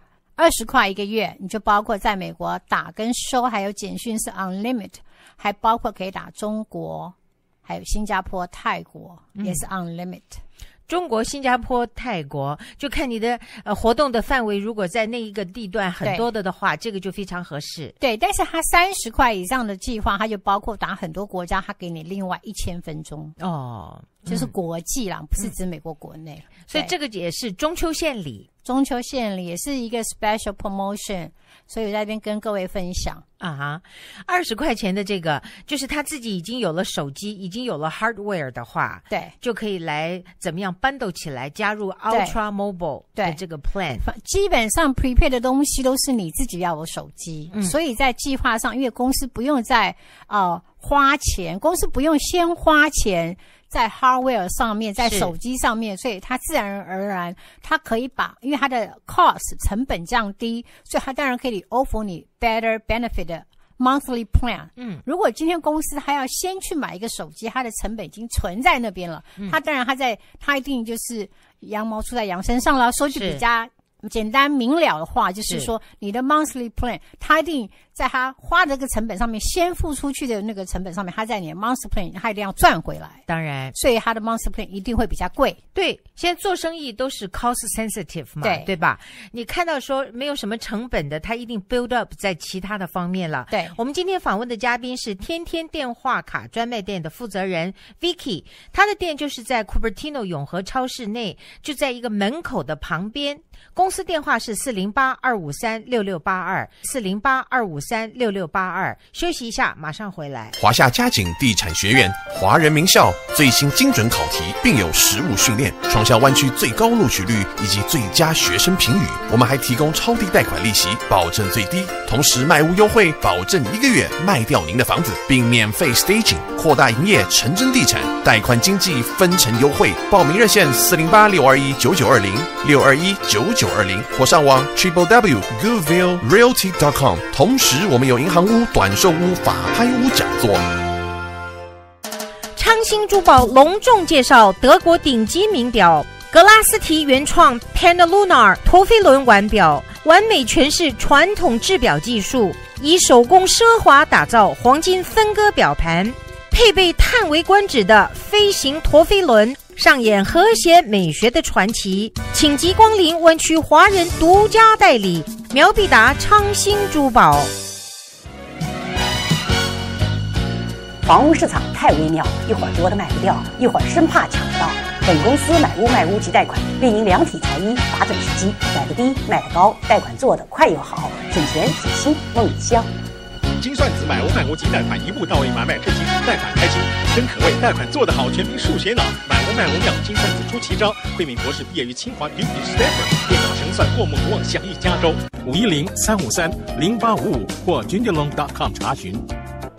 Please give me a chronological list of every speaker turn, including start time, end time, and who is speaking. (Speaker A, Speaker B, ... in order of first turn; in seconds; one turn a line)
Speaker A: 0.4-7.1
Speaker A: 7.7-10.4
Speaker B: 9.3-9.6
Speaker B: 10.9-17.9
Speaker A: 18.0-23.3
Speaker B: 23.4-24.5
Speaker A: 24.3-26.9
Speaker B: 26.7-28.5
Speaker A: 28.6-33.2
Speaker B: 33.4-44.0
Speaker A: 42.1-42.4
Speaker A: 44.0-83.2
Speaker B: 55.0-55.3
Speaker B: 64.8-65.0
Speaker B: 73.1-73.4
Speaker B: 83.3-83.7
Speaker A: 83.7-85.6
Speaker B: 85.7-110.5
Speaker A: 88.4-88.7
Speaker A: 93.5-93.8
Speaker C: 110.6-140.7
Speaker B: 142.6-167.5
Speaker D: 171.0-182.9
Speaker E: 183.6-199.2